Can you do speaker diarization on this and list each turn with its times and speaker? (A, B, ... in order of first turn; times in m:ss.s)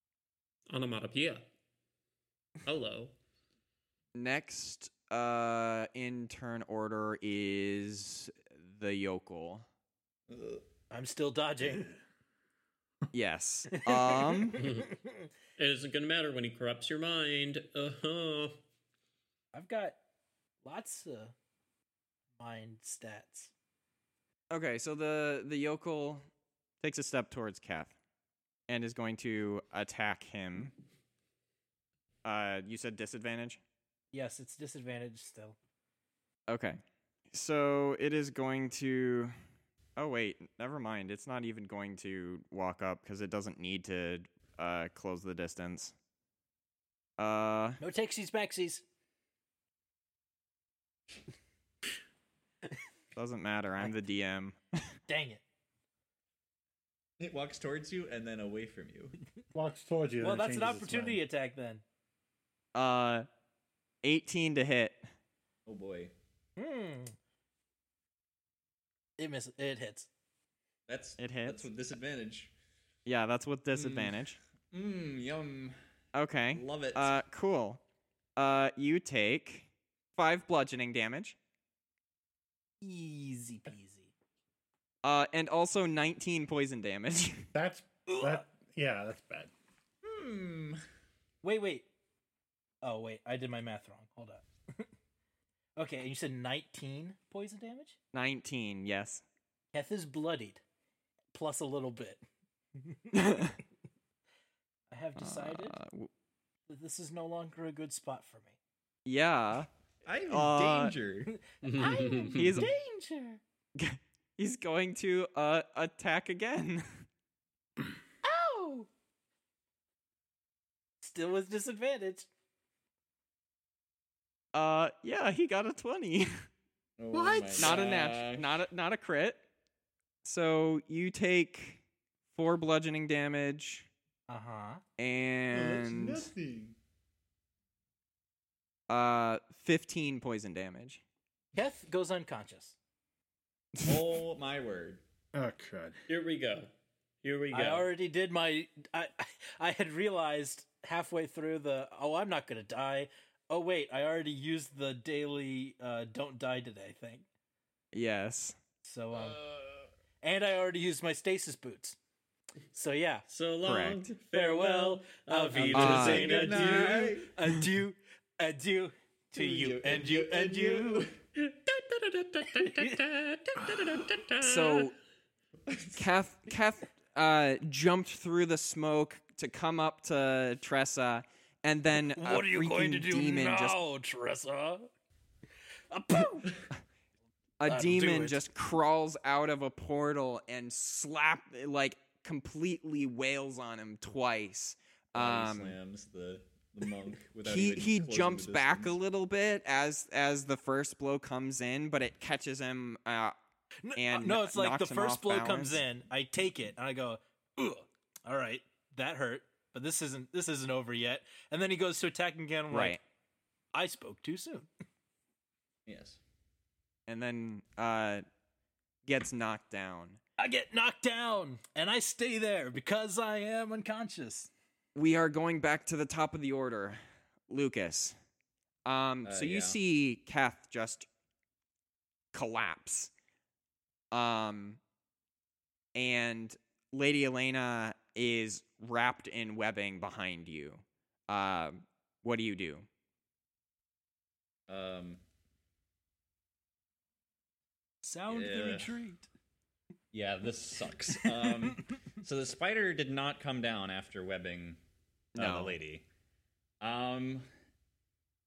0:00.7-0:01.4 A
0:02.6-0:03.1 A
0:04.2-0:09.6 B
0:10.3-0:10.7 C
0:10.9-0:11.9 D
0:13.1-0:14.6 B
0:13.7-0:15.3 D
0:14.6-0:14.9 A
0:15.6-0:18.6 A
0:19.5-0:20.0 D
0:20.6-0:21.3 D
0:22.4-0:23.5 D
0:24.5-0:26.2 B
0:26.8-0:28.0 B
0:28.7-0:30.7 B
0:32.2-0:33.6 B
0:34.1-0:35.6 D
0:36.5-0:36.8 B
0:37.3-0:39.4 B
0:40.0-0:46.0 B
0:47.2-0:47.8 B
0:47.8-0:48.8 D
0:53.2-0:54.9 B
0:55.1-0:55.4 D
0:57.2-0:59.2 C
0:59.5-1:01.2 E
1:00.2-1:01.8 D
1:02.8-1:03.3 B
1:04.0-1:05.1 B
1:05.7-1:06.1 C
1:06.6-1:07.2 D
1:09.2-1:10.1 D
1:10.9-1:12.5 C
1:11.2-1:11.7 B
1:13.1-1:14.4 B
1:13.7-1:15.8 C
1:16.1-1:17.8 B
1:16.5-1:17.2 C
1:18.4-1:21.4 B
1:22.8-1:24.1 D
1:25.0-1:27.5 B
1:27.5-1:29.5 E
1:28.1-1:28.4 D
1:30.0-1:30.8 C
1:31.4-1:31.9 D
1:32.8-1:34.9 D
1:35.8-1:38.0 D
1:38.1-1:39.2 B
1:39.7-1:40.6 D
1:41.3-1:42.2 D
1:42.8-1:43.6 D
1:43.1-1:43.6 B
1:44.9-1:45.8 D
1:45.2-1:46.1 B
1:46.7-1:48.6 D
1:49.1-1:49.7 B
1:50.0-1:51.4 C
1:50.3-1:51.0 B
1:51.3-1:53.4 D
1:51.6-1:52.6 A
1:52.3-1:52.7 B
1:53.8-1:57.0 B
1:58.2-1:58.9 D
2:01.0-2:02.3 D
2:04.5-2:06.4 B
2:07.0-2:08.5 C
2:07.1-2:07.8 E
2:07.6-2:09.4 B
2:10.2-2:11.8 B
2:12.3-2:13.9 B
2:14.3-2:14.8 D
2:15.0-2:16.3 B
2:15.5-2:16.8 C
2:18.9-2:21.0 B
2:21.6-2:22.8 D
2:23.8-2:25.0 C
2:25.3-2:26.0 E
2:26.1-2:26.7 A
2:27.2-2:27.9 A
2:27.5-2:37.3 D
2:37.9-2:38.6 B
2:38.8-2:39.4 D
2:39.2-2:39.9 C
2:40.2-2:42.0 D
2:42.7-2:43.3 D
2:43.3-2:47.0 A
2:43.6-2:44.1 B
2:44.3-2:51.1 D
2:45.6-2:47.3 C
2:45.7-2:46.3 B
2:49.4-2:51.2 C
2:51.4-2:54.9 A
2:52.6-2:53.0 D
2:54.4-2:55.0 B
2:55.7-2:56.1 C
2:56.0-3:03.8 B
3:02.0-3:04.9 D
3:05.9-3:06.6 D
3:07.6-3:15.8 B
3:07.7-3:08.4 D
3:15.2-3:19.0 C
3:17.4-3:23.4 B
3:23.8-3:33.0 D
3:24.0-3:25.8 B
3:32.7-3:33.0 B
3:33.7-3:34.7 D
3:35.9-3:36.2 C
3:37.1-3:38.2 B
3:39.0-3:40.2 B
3:40.4-3:44.5 D
3:45.0-3:48.2 B
3:48.8-3:51.1 B
3:49.2-3:49.8 C
3:52.3-3:53.1 B
3:54.1-3:54.8 B
3:56.0-4:02.9 B
4:04.7-4:05.2 C
4:08.0-4:09.3 D
4:08.3-4:09.0 C
4:10.1-4:14.8 C
4:11.3-4:11.8 D
4:15.4-4:15.8 B
4:15.4-4:16.1 C
4:16.8-4:17.5 C